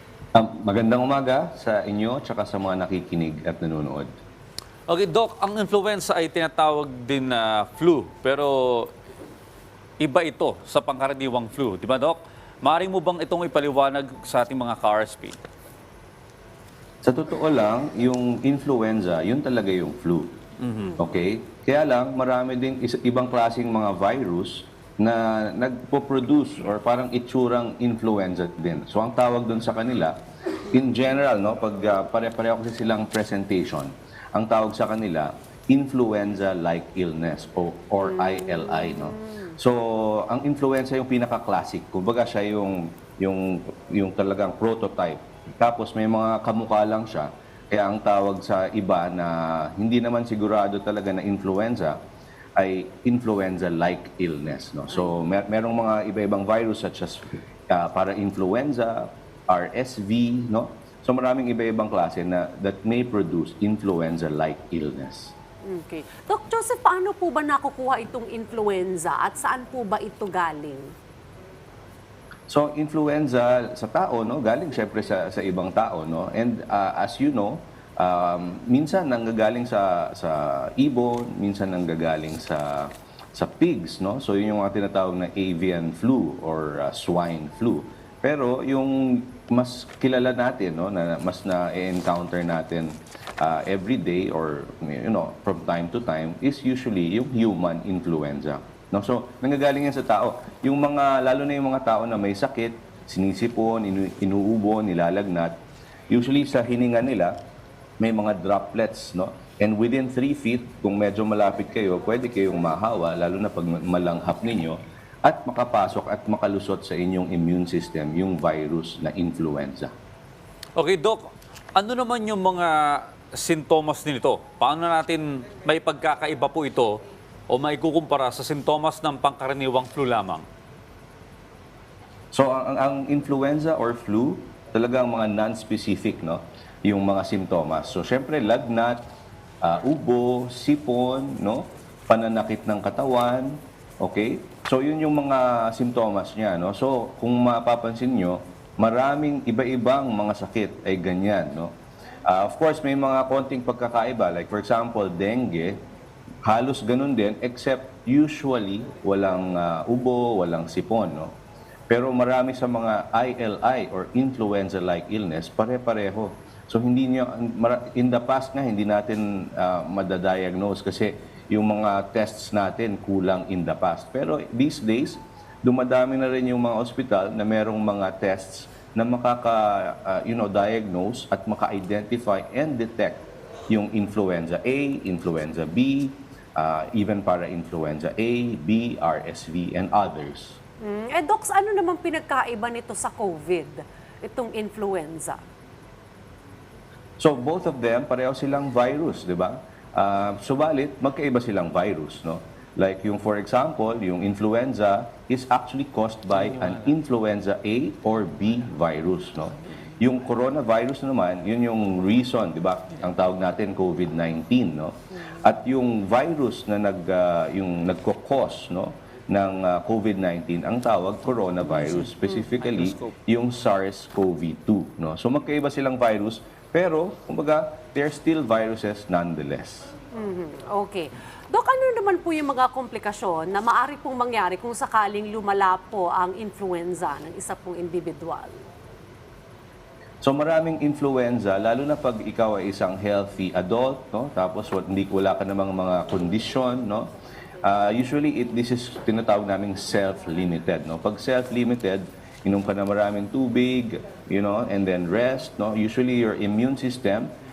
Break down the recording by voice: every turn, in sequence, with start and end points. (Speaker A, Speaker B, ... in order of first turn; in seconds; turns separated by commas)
Speaker A: 0.3-4.1, Speaker B: 4.9-8.9, Speaker B: 10.0-15.4, Speaker A: 17.0-20.3, Speaker B: 20.6-21.0, Speaker A: 21.0-30.1, Speaker A: 30.7-52.0, Speaker C: 38.2-39.5, Speaker A: 52.5-65.3, Speaker C: 65.7-70.9, Speaker A: 72.5-105.5, Speaker A: 106.1-107.3, Speaker A: 108.0-119.9, Speaker B: 120.8-127.0, Speaker B: 127.5-130.4, Speaker A: 132.3-139.0, Speaker A: 139.6-151.7, Speaker A: 152.2-155.8, Speaker A: 156.4-161.3, Speaker A: 161.9-190.6, Speaker C: 190.8-195.4, Speaker A: 197.2-229.9, Speaker C: 230.1-238.6, Speaker A: 240.2-247.1, Speaker A: 247.6-257.3